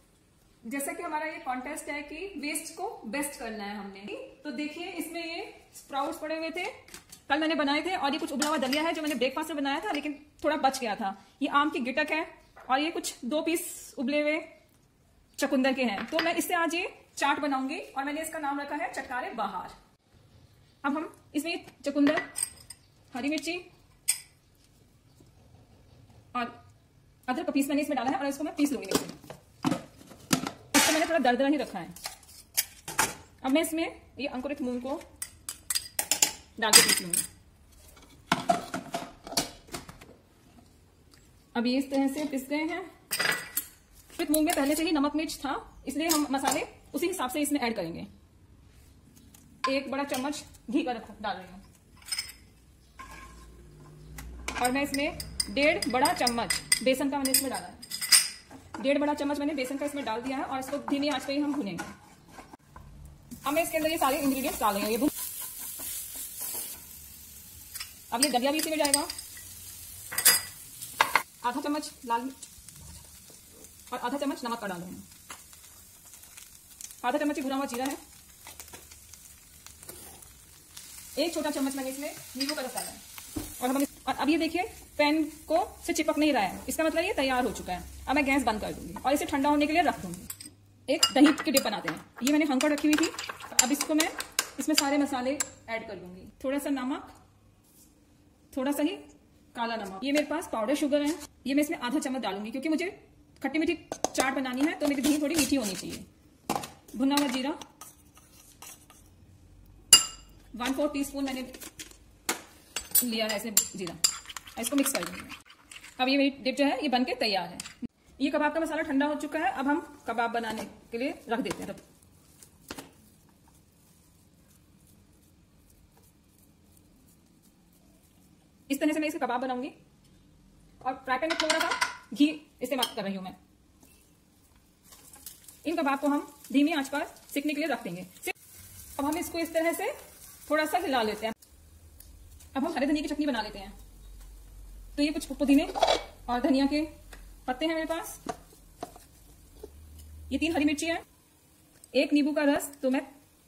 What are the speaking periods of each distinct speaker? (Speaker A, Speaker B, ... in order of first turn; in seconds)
Speaker A: 0.7-6.7, 7.3-14.5, 15.4-19.8, 20.8-22.3, 23.1-23.7, 27.3-29.2, 30.7-31.9, 33.4-35.0, 36.6-37.3, 41.5-42.9, 44.1-48.1, 49.6-51.6, 54.6-57.8, 58.8-61.9, 63.4-65.1, 68.1-69.1, 71.4-72.3, 73.9-75.0, 77.0-78.0, 81.2-83.0, 83.6-90.3, 90.9-97.1, 98.5-106.1, 106.9-107.6, 110.5-111.5, 113.0-114.0, 114.6-115.4, 116.0-121.8, 128.7-129.8, 130.8-133.4, 135.6-138.3, 139.0-141.3, 142.5-143.8, 144.9-146.9, 147.5-148.2, 150.3-151.0, 151.9-153.1